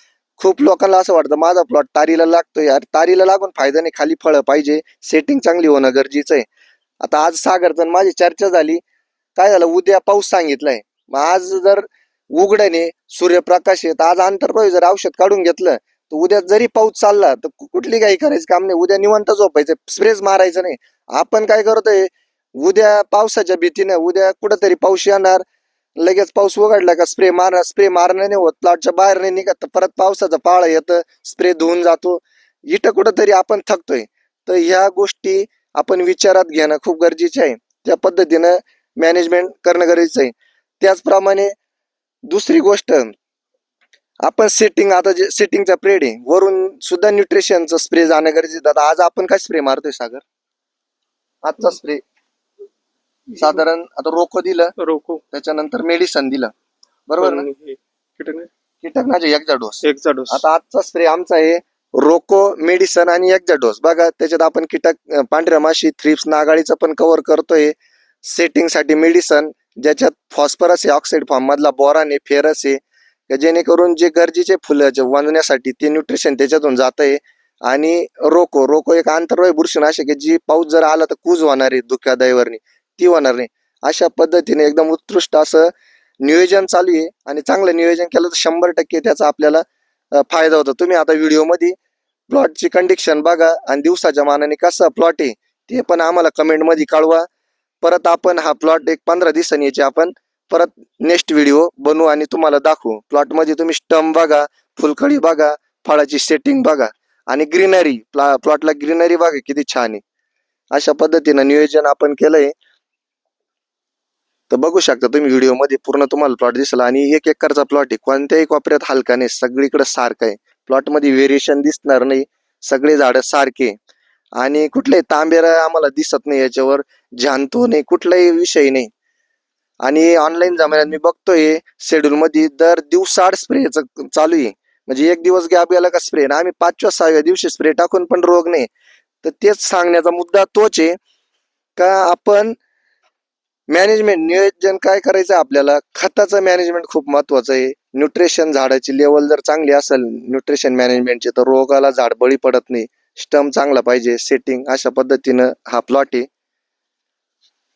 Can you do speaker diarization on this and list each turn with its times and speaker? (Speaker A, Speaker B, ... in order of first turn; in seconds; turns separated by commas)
Speaker A: 0.4-6.5, Speaker A: 7.0-8.8, Speaker A: 9.3-25.4, Speaker A: 26.0-41.5, Speaker A: 42.3-43.1, Speaker A: 44.2-50.2, Speaker A: 51.4-52.0, Speaker A: 53.4-54.7, Speaker B: 54.8-55.2, Speaker A: 55.3-56.5, Speaker A: 57.1-57.5, Speaker B: 57.2-58.5, Speaker A: 58.8-85.7, Speaker B: 59.8-60.4, Speaker A: 86.2-91.8, Speaker A: 92.3-97.3, Speaker A: 97.8-110.0, Speaker A: 110.7-112.5, Speaker A: 114.5-123.7, Speaker A: 124.4-128.9, Speaker A: 129.8-138.7, Speaker A: 139.2-141.0, Speaker A: 141.8-142.6, Speaker A: 143.7-156.3